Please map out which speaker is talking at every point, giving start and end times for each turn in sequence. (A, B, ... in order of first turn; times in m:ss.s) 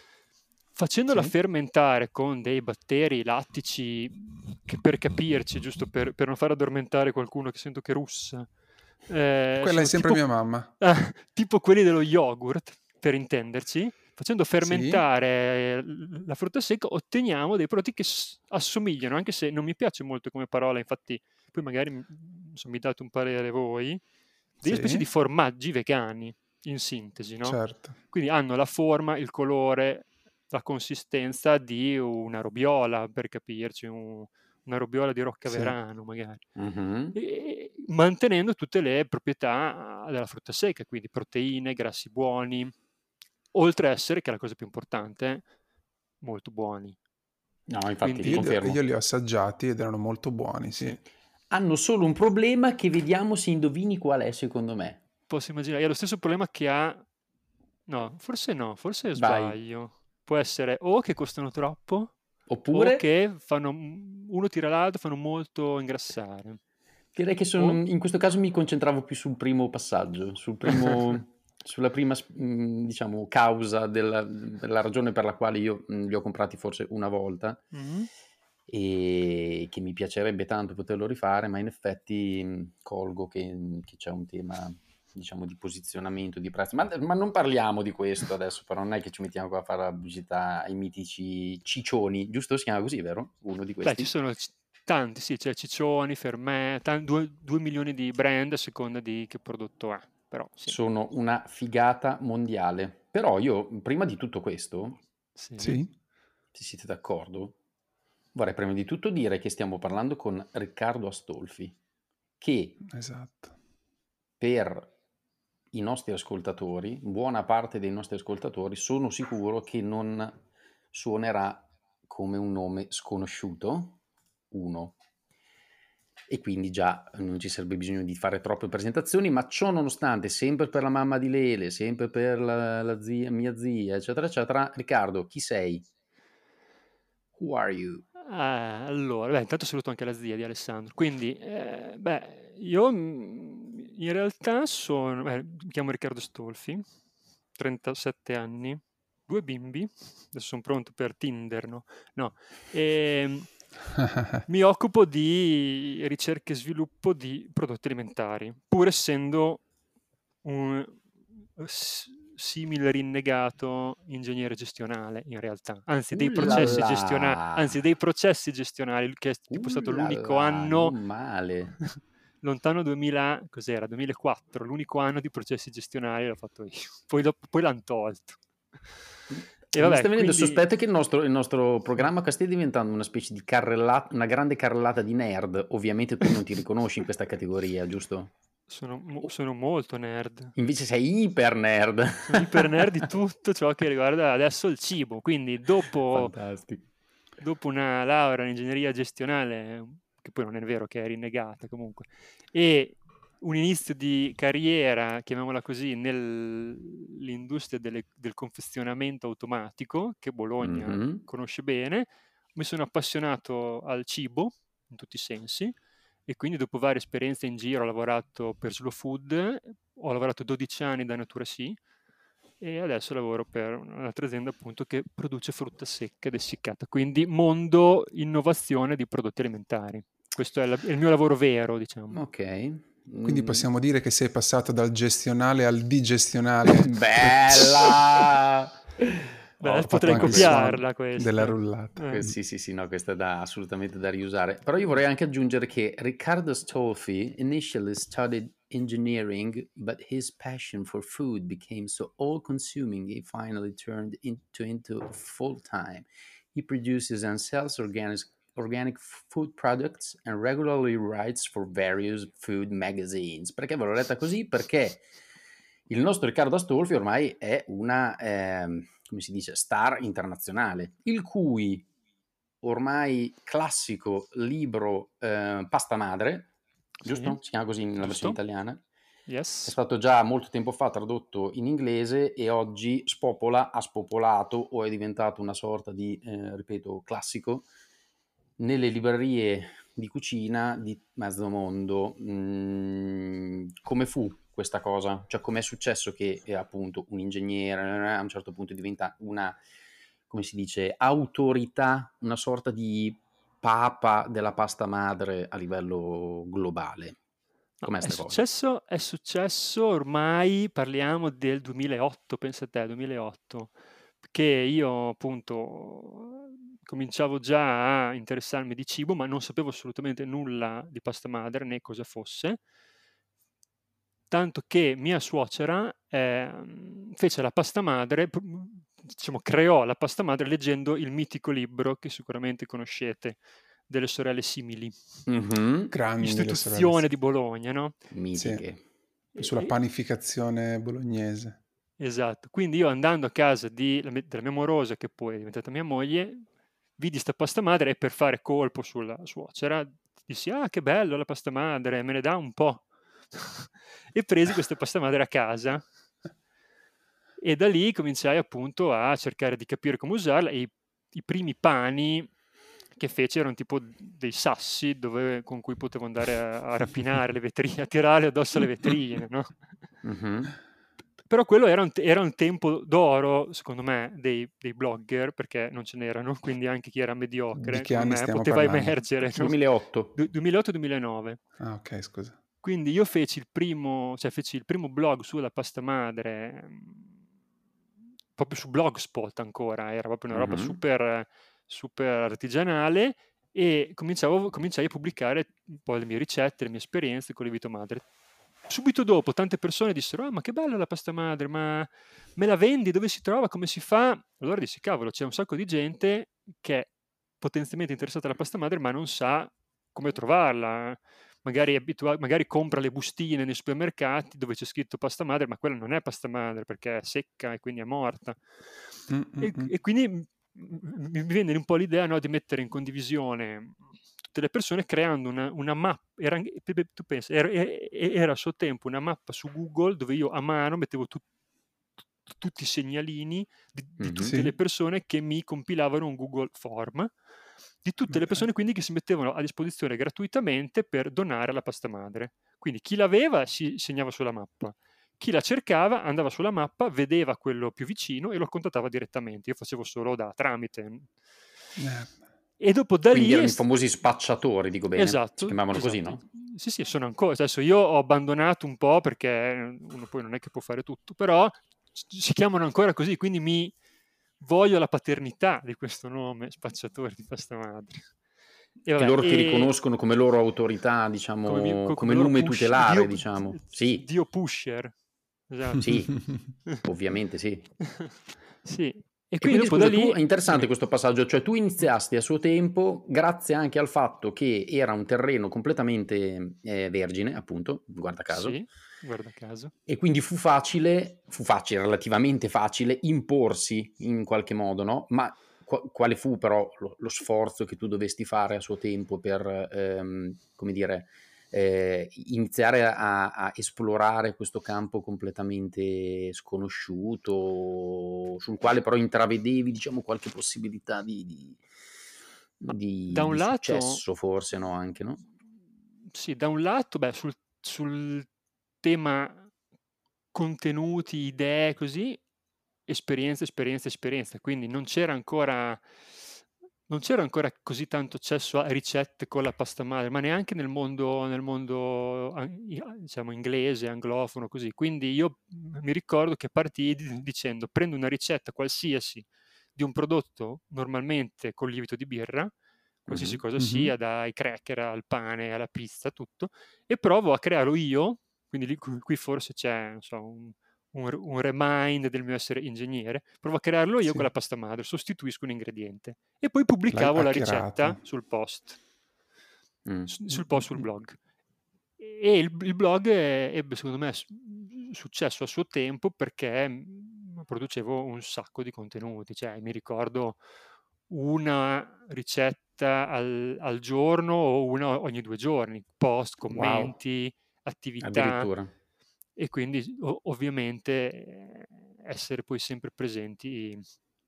0:00.8-0:08.5 A
0:09.1-0:10.3 A
0:09.6-0:10.7 B
0:10.8-0:24.0 A
0:14.6-0:15.0 B
0:24.6-0:25.0 B
0:24.6-0:27.6 A
0:27.4-0:28.0 B
0:28.1-0:36.4 A
0:35.5-0:35.8 B
0:36.6-0:37.2 C
0:37.2-0:42.7 A
0:43.5-0:45.4 A
0:46.2-0:47.0 A
0:47.7-0:48.8 C
0:48.0-0:48.5 A
0:48.2-0:51.0 B
0:51.5-0:55.0 C
0:55.3-0:57.1 A
0:57.9-1:02.2 A
0:59.2-0:59.6 C
1:02.5-1:03.0 C
1:02.7-1:06.6 A
1:07.2-1:17.6 C
1:17.7-1:18.1 A
1:18.7-1:34.1 C
1:33.8-1:40.8 A
1:40.7-1:45.0 C
1:45.4-1:45.8 A
1:45.6-1:45.9 B
1:46.5-1:47.6 C
1:48.4-1:51.8 C
1:52.4-1:52.8 C
1:52.9-1:53.6 B
1:54.4-1:54.9 C
1:55.7-2:00.4 C
2:00.9-2:04.0 C
2:04.5-2:05.0 C
2:06.3-2:15.8 C
2:17.4-2:18.0 C
2:18.2-2:26.8 A
2:27.6-2:33.5 A
2:34.0-2:34.4 B
2:34.5-2:39.6 A
2:40.4-2:41.0 A
2:41.6-2:51.0 A
2:46.1-2:47.7 C
2:49.5-2:51.8 C
2:52.4-2:58.4 A
2:59.3-3:08.3 C
2:59.8-3:00.6 A
3:08.7-3:10.5 A
3:10.6-3:12.9 C
3:12.3-3:16.3 A
3:16.1-3:16.8 C
3:17.4-3:35.7 A
3:30.6-3:31.2 C
3:36.3-3:41.8 A
3:42.6-3:52.2 A
3:52.1-3:53.7 C
3:53.2-3:57.9 B
3:56.7-4:00.6 C
3:59.6-4:02.2 A
3:59.7-4:02.4 B
4:02.1-4:25.0 C
4:25.9-4:31.9 C
4:32.6-4:36.5 C
4:37.0-4:38.8 C
4:37.1-4:37.4 A
4:38.0-4:38.4 A
4:39.3-4:39.8 A
4:39.7-4:47.7 C
4:48.6-4:59.6 C
5:00.3-5:07.2 C
5:07.8-5:13.7 A
5:07.8-5:08.4 C
5:14.2-5:22.6 A
5:24.3-5:35.0 A
5:35.3-5:35.9 C
5:35.9-5:37.0 B
5:36.2-5:38.0 A
5:38.1-5:38.8 C
5:38.3-5:38.6 B
5:39.4-5:41.6 B
5:39.4-5:39.7 A
5:42.0-5:46.4 A
5:47.0-5:55.9 A
5:57.4-6:02.3 A
6:03.0-6:09.6 A
6:10.0-6:10.5 C
6:11.3-6:19.6 A
6:17.6-6:19.0 B
6:19.3-6:20.1 C
6:20.2-6:21.4 A
6:21.6-6:22.4 B
6:22.6-6:27.1 A
6:28.4-6:38.0 A
6:30.3-6:30.8 C
6:38.7-6:46.9 A
6:47.4-6:58.4 A
6:59.1-6:59.7 B
6:59.4-7:11.2 A
7:12.3-7:17.1 A
7:14.0-7:14.4 C
7:14.2-7:14.5 B
7:17.8-7:31.1 A
7:18.1-7:18.4 B
7:31.8-7:32.2 B
7:32.6-7:33.6 A
7:33.1-7:36.2 C
7:35.0-7:43.8 A
7:44.4-7:48.1 A
7:48.8-7:49.7 A
7:49.0-7:54.0 C
7:51.5-7:55.0 A
7:55.5-7:56.1 A
7:55.8-7:56.2 C
7:56.7-7:57.7 C
7:57.8-8:00.7 A
7:59.4-8:08.6 C
8:08.3-8:09.7 A
8:09.9-8:31.6 C
8:32.6-8:35.2 C
8:32.7-8:34.0 A
8:36.1-8:38.3 A
8:38.8-8:39.5 A
8:40.3-8:42.2 A
8:42.9-8:45.8 A
8:46.9-9:02.5 A
9:03.1-9:03.4 C
9:03.1-9:18.8 A
9:03.6-9:03.9 B
9:16.9-9:18.0 B
9:19.9-9:20.2 C
9:20.1-9:21.2 A
9:20.3-9:20.8 B
9:22.0-9:30.4 A
9:31.1-9:38.5 A
9:36.5-9:36.9 C
9:38.0-9:38.7 C
9:39.4-9:43.8 A